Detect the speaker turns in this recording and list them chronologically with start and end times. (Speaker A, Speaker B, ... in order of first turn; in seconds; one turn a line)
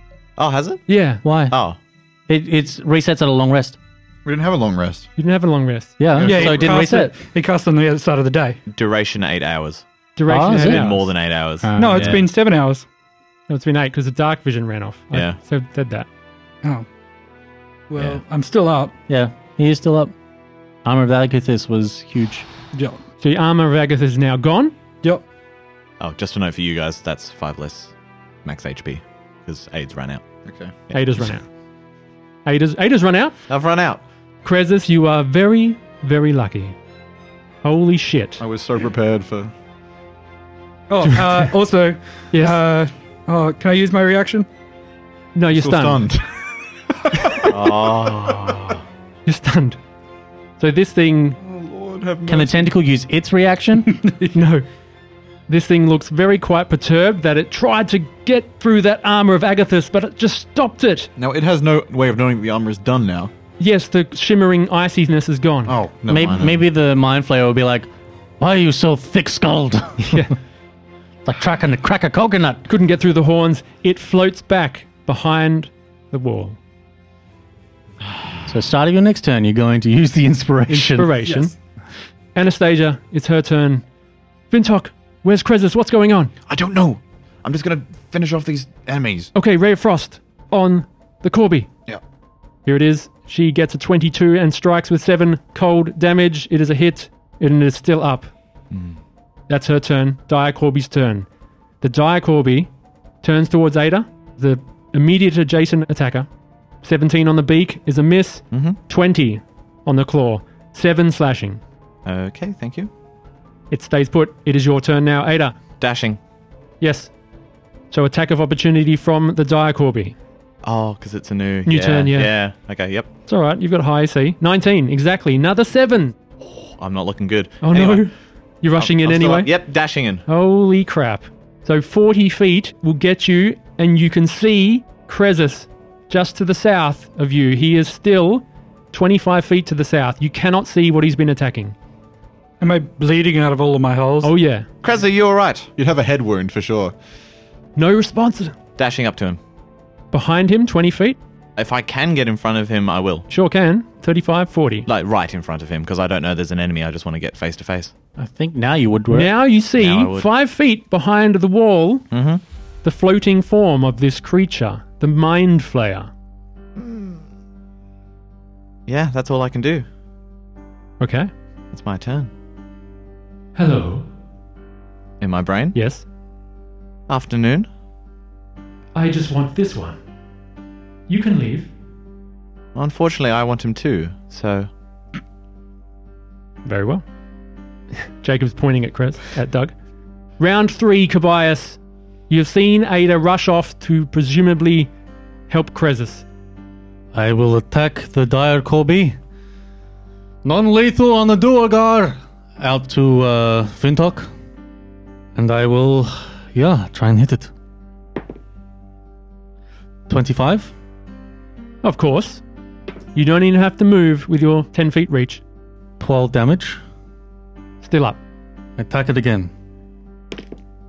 Speaker A: 0.4-0.8
Speaker B: 0.9-1.2
Speaker C: 1.2-1.6
Speaker A: 1.5-1.8
Speaker C: 2.3-3.8
Speaker D: 4.2-5.1
Speaker B: 5.2-6.0
Speaker C: 6.0-7.2
Speaker D: 6.1-6.8
Speaker E: 6.2-8.6
Speaker A: 8.7-9.8
Speaker B: 10.2-11.1
Speaker C: 10.3-10.9
Speaker A: 10.5-12.2
Speaker C: 11.6-12.2
Speaker E: 11.8-12.8
Speaker B: 13.5-16.1
Speaker A: 15.1-15.4
Speaker E: 17.9-18.9
Speaker A: 17.9-18.2
Speaker C: 19.1-20.1
Speaker C: 20.8-22.5
Speaker E: 22.7-23.0
Speaker B: 23.2-24.7
Speaker A: 26.0-27.9
Speaker A: 28.4-30.2
Speaker D: 30.4-30.7
Speaker B: 30.9-31.4
Speaker B: 32.5-33.4
Speaker A: 33.5-34.0
Speaker B: 34.4-36.8
Speaker B: 37.6-38.4
Speaker D: 38.4-39.5
Speaker E: 40.9-44.5
Speaker B: 41.1-41.5
Speaker B: 42.3-42.6
Speaker B: 45.3-46.1
Speaker D: 45.5-48.7
Speaker A: 47.5-48.8
Speaker B: 49.2-49.8
Speaker B: 50.6-51.4
Speaker D: 51.4-52.8
Speaker C: 52.3-54.1
Speaker B: 54.3-54.6
Speaker B: 55.5-61.1
Speaker D: 61.2-63.3
Speaker B: 63.6-65.8
Speaker D: 65.7-66.6
Speaker C: 66.1-67.9
Speaker C: 68.4-70.2
Speaker C: 71.2-72.7
Speaker B: 72.7-76.6
Speaker C: 78.5-81.1
Speaker B: 80.7-81.5
Speaker E: 81.2-81.5
Speaker B: 82.3-83.8
Speaker B: 84.5-86.3
Speaker D: 86.5-89.3
Speaker B: 89.3-91.7
Speaker B: 92.7-98.3
Speaker B: 99.5-101.3
Speaker B: 101.8-102.7
Speaker B: 103.2-106.3
Speaker B: 106.8-111.6
Speaker A: 108.5-108.8
Speaker A: 112.0-112.9
Speaker B: 113.7-115.5
Speaker A: 115.8-116.2
Speaker B: 116.8-117.1
Speaker B: 117.9-120.2
Speaker A: 120.6-123.1
Speaker B: 121.6-122.3
Speaker B: 123.3-126.1
Speaker A: 126.8-128.0
Speaker B: 127.6-129.5
Speaker A: 128.8-130.2
Speaker B: 130.2-141.7
Speaker E: 142.6-144.3
Speaker B: 144.2-144.7
Speaker A: 144.8-145.7
Speaker D: 145.8-146.9
Speaker B: 147.8-148.5
Speaker A: 148.8-149.4
Speaker B: 150.1-151.2
Speaker A: 151.6-153.3
Speaker B: 153.3-154.9
Speaker A: 154.9-157.9
Speaker C: 158.2-159.3
Speaker B: 159.1-162.1
Speaker A: 159.8-160.3
Speaker A: 162.1-162.4
Speaker B: 162.8-166.1
Speaker A: 166.8-167.2
Speaker A: 168.9-169.8
Speaker B: 171.0-171.3
Speaker A: 171.7-172.3
Speaker B: 173.6-174.0
Speaker A: 175.2-175.8
Speaker B: 175.7-176.0
Speaker A: 177.1-177.7
Speaker B: 178.9-180.0
Speaker B: 181.1-181.7
Speaker A: 182.7-184.7
Speaker B: 186.6-187.0
Speaker B: 188.0-189.7
Speaker B: 190.4-191.8
Speaker B: 192.3-194.9
Speaker B: 195.5-196.2
Speaker C: 197.1-199.2
Speaker C: 200.4-204.3
Speaker C: 205.3-207.5
Speaker C: 210.1-210.7
Speaker B: 211.8-212.4
Speaker B: 213.1-215.4
Speaker C: 216.0-216.8
Speaker B: 217.8-218.2
Speaker C: 218.8-219.5